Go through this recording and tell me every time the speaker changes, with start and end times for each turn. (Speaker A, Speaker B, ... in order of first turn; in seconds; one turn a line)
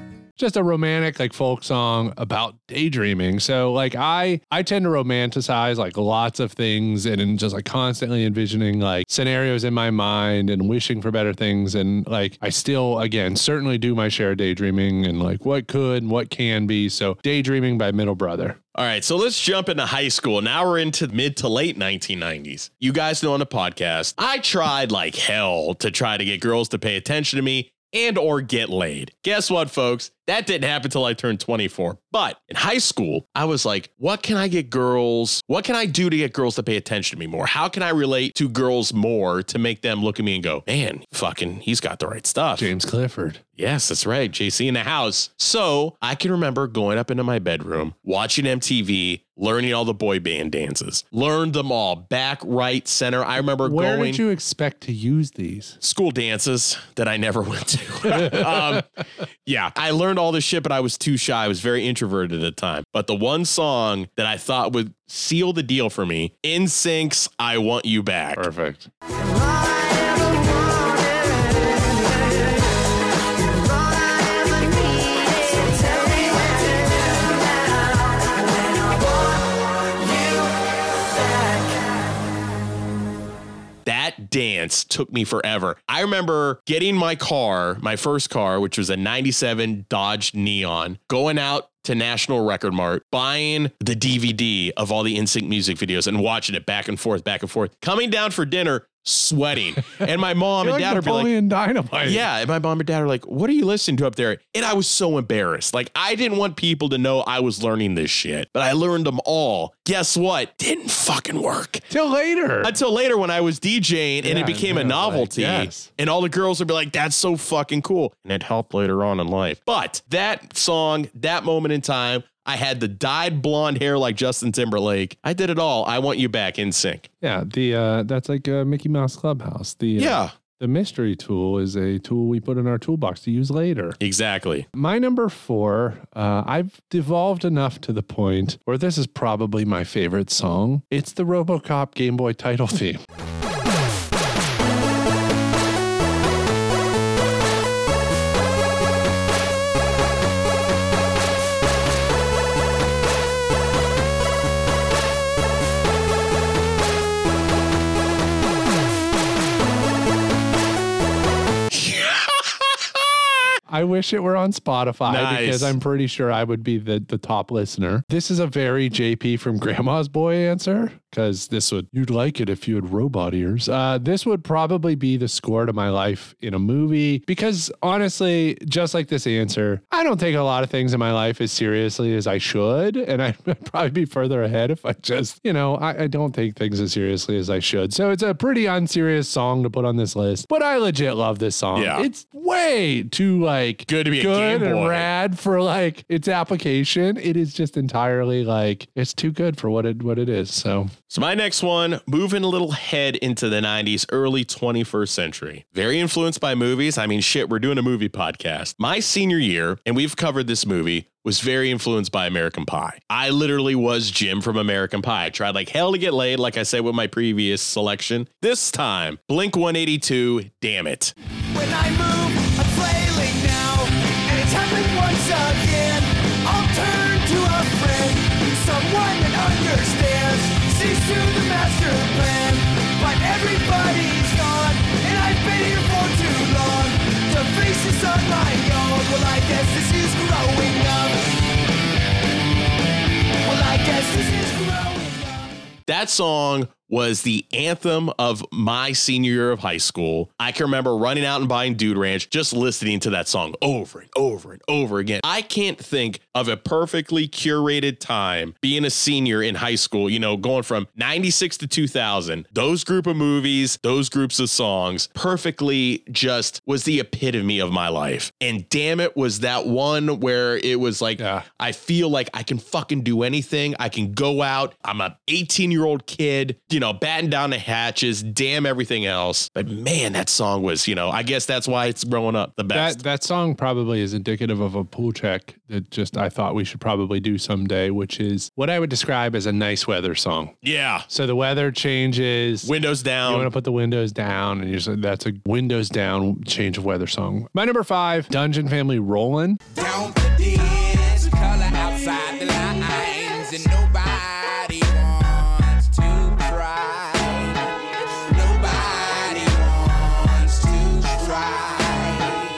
Speaker A: 0.4-18.6
Speaker B: 18.8-42.7
Speaker A: 42.6-43.4
Speaker B: 43.6-54.2
Speaker A: 53.4-55.8
Speaker B: 55.8-58.9
Speaker A: 58.1-58.8
Speaker B: 59.5-68.5
Speaker A: 68.4-68.9
Speaker C: 69.3-71.0
Speaker C: 71.7-72.3
Speaker C: 73.6-74.5
Speaker C: 75.6-77.0
Speaker C: 78.4-81.8
Speaker B: 83.8-101.3
Speaker A: 100.6-102.2
Speaker B: 102.0-111.8
Speaker A: 111.9-112.7
Speaker B: 112.6-127.1
Speaker A: 114.2-115.9
Speaker A: 127.2-134.0
Speaker B: 130.0-130.3
Speaker B: 134.0-134.7
Speaker A: 134.8-143.0
Speaker B: 161.7-163.1
Speaker A: 163.7-200.9
Speaker B: 165.1-165.8
Speaker B: 191.7-192.1
Speaker B: 193.9-195.1
Speaker B: 201.1-221.1
Speaker C: 221.5-241.4
Speaker C: 243.4-245.5
Speaker B: 245.9-283.0
Speaker A: 271.2-271.5
Speaker A: 282.7-290.6
Speaker B: 290.6-291.1
Speaker A: 291.1-292.7
Speaker B: 292.6-293.5
Speaker A: 293.2-299.6
Speaker C: 299.9-301.4
Speaker C: 310.5-311.4